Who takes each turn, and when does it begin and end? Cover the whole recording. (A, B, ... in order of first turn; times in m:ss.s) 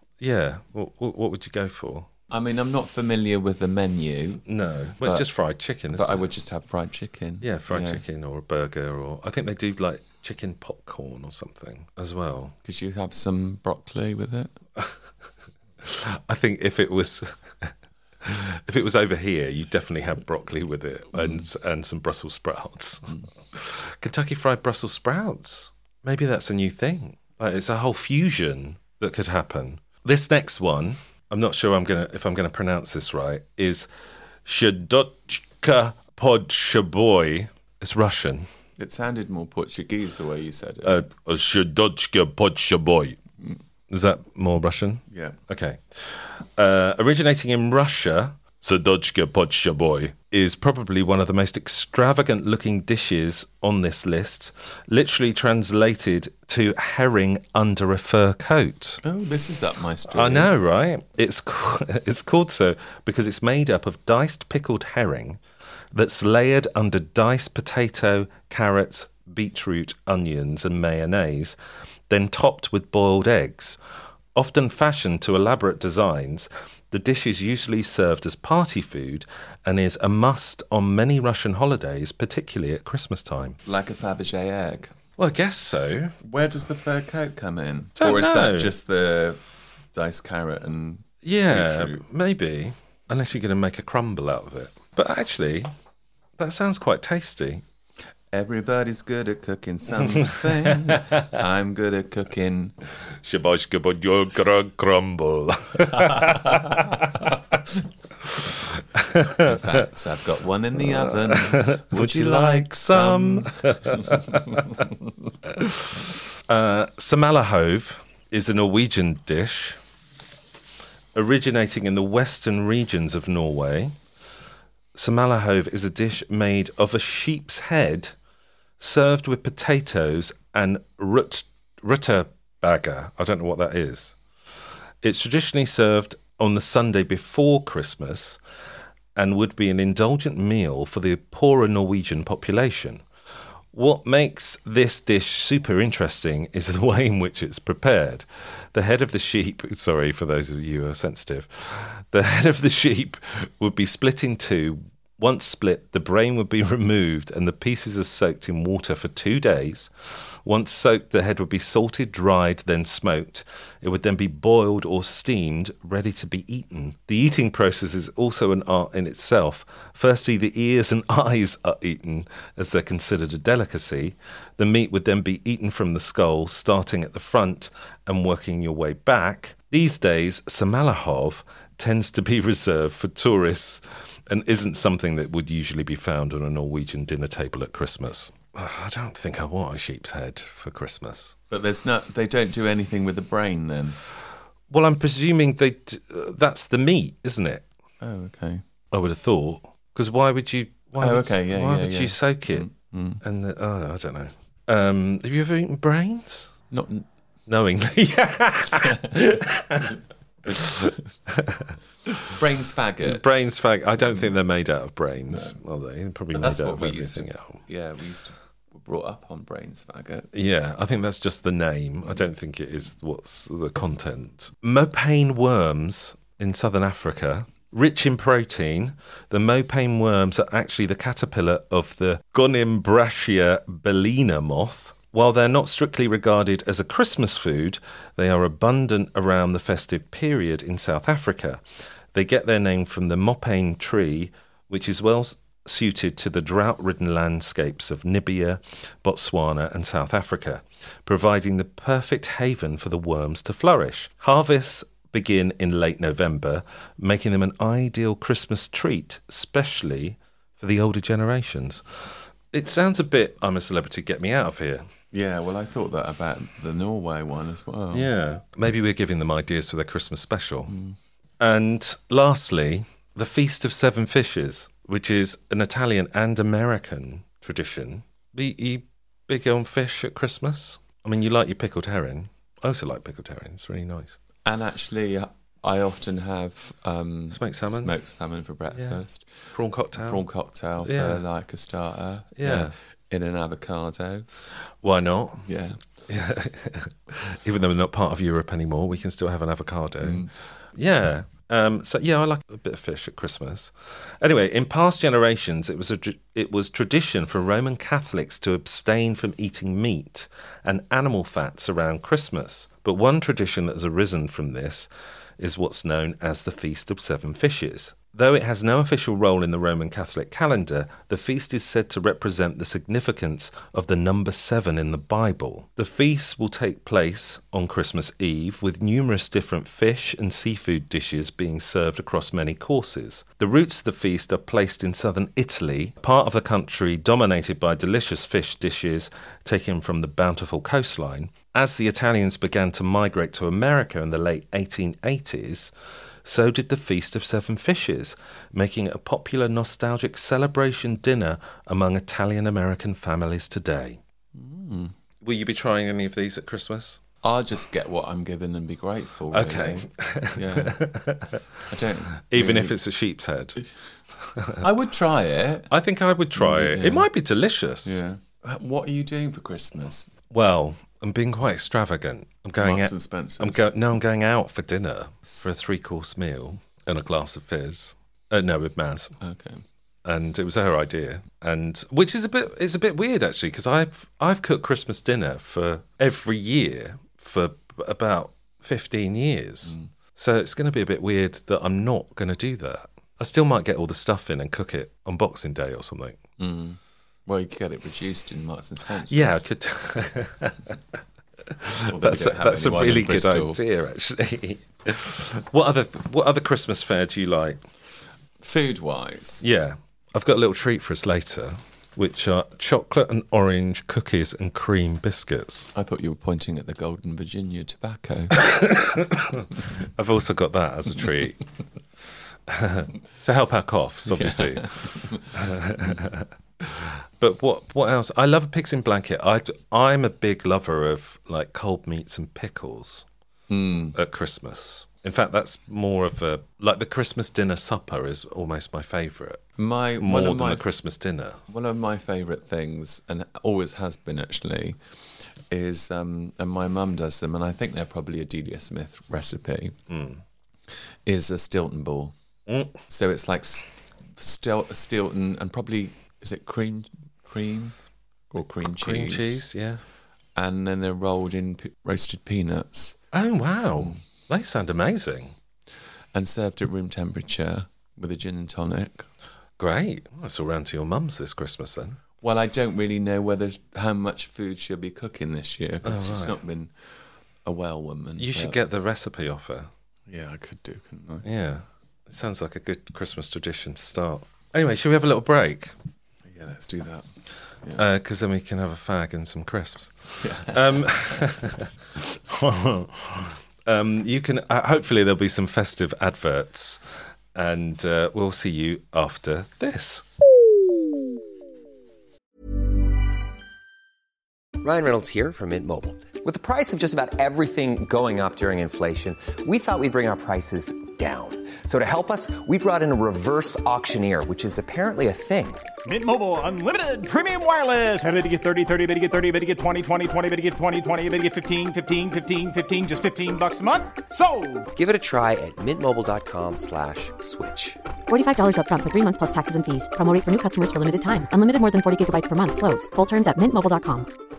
0:00.2-0:02.1 A
0:02.3-0:04.4 B
0:04.4-0:06.3 A
0:05.0-0:05.3 B
0:05.9-0:08.0 B
0:07.4-0:12.5 A
0:12.6-0:14.5 B
0:15.8-0:33.9 A
0:21.1-0:21.4 B
0:34.4-0:38.5 A
0:38.8-0:41.0 B
0:40.8-0:43.2 A
0:43.9-0:59.0 A
0:45.1-0:45.4 B
0:59.0-1:00.5 B
1:00.1-1:05.4 A
1:05.9-1:11.6 A
1:12.1-1:13.8 A
1:14.3-1:23.6 A
1:23.6-1:24.9 B
1:25.2-1:26.2 A
1:26.2-1:32.0 B
1:28.0-1:28.7 A
1:31.2-1:35.7 A
1:36.4-1:37.6 A
1:38.3-1:42.7 B
1:40.2-1:41.2 A
1:43.2-1:47.6 A
1:46.0-1:46.8 B
1:48.2-1:49.5 A
1:49.4-1:54.8 B
1:51.3-1:54.8 A
1:55.4-1:59.8 A
2:01.1-2:04.0 A
2:04.9-2:08.1 A
2:08.8-2:14.1 A
2:15.0-2:18.4 A
2:19.1-2:23.0 A
2:23.7-2:39.9 A
2:40.4-3:11.4 A
3:11.5-3:14.0 B
3:14.7-3:17.6 A
3:18.0-3:18.6 B
3:18.9-3:22.7 A
3:21.0-3:23.2 B
3:23.2-3:26.5 A
3:26.7-3:27.1 B
3:27.5-3:32.3 A
3:32.3-3:34.3 B
3:33.0-3:37.6 A
3:35.3-3:35.6 B
3:36.3-3:40.3 B
3:40.3-4:01.6 A
4:02.1-4:21.8 A
4:22.5-4:24.9 A
4:25.1-4:28.1 B
4:27.9-4:30.7 A
4:30.7-4:31.0 B
4:31.4-4:44.2 A
4:44.4-4:54.3 B
4:47.3-4:47.9 A
4:48.7-4:49.0 A
4:49.5-4:50.2 A
4:50.8-4:51.2 A
4:52.4-4:52.7 A
4:54.8-4:55.5 A
4:55.4-4:55.8 B
4:56.1-5:45.7 A
5:00.0-5:00.3 B
5:46.2-5:54.0 A
5:54.3-5:54.9 B
5:55.2-5:57.0 A
5:57.2-6:00.8 B
5:59.3-6:01.6 A
6:01.7-6:02.8 B
6:02.2-6:03.6 A
6:04.2-6:04.6 A
6:04.6-6:05.7 B
6:05.7-6:08.0 A
6:06.3-6:07.1 B
6:07.8-6:10.1 B
6:10.3-6:19.1 A
6:12.6-6:13.7 B
6:19.2-6:19.6 B
6:20.0-6:36.2 A
6:36.4-6:39.4 B
6:39.1-6:47.6 A
6:41.9-6:43.6 B
6:48.4-6:49.4 B
6:49.4-6:55.7 A
6:55.7-6:58.4 B
6:58.3-7:01.5 A
7:02.5-7:13.1 A
7:04.0-7:05.3 B
7:13.5-7:14.0 B
7:13.9-7:19.4 A
7:19.6-7:20.6 B
7:20.0-7:21.4 A
7:21.5-7:29.8 B
7:29.9-7:30.2 A
7:31.0-7:32.1 B
7:32.5-7:32.8 A
7:32.9-7:37.8 B
7:38.3-7:39.4 B
7:38.6-7:39.8 A
7:40.4-7:43.0 B
7:43.1-7:45.4 A
7:46.1-7:49.1 B
7:49.6-7:52.0 A
7:52.2-7:56.9 B
7:55.8-7:56.4 A
7:57.4-7:58.6 B
7:58.2-7:59.7 A
8:00.1-8:01.2 B
8:01.2-8:05.7 A
8:06.2-8:07.1 B
8:07.8-8:16.8 A
8:10.2-8:10.8 B
8:17.3-8:20.0 A
8:24.6-8:35.7 C
8:35.8-8:44.6 D
8:44.7-8:47.8 C
8:48.1-8:54.1 E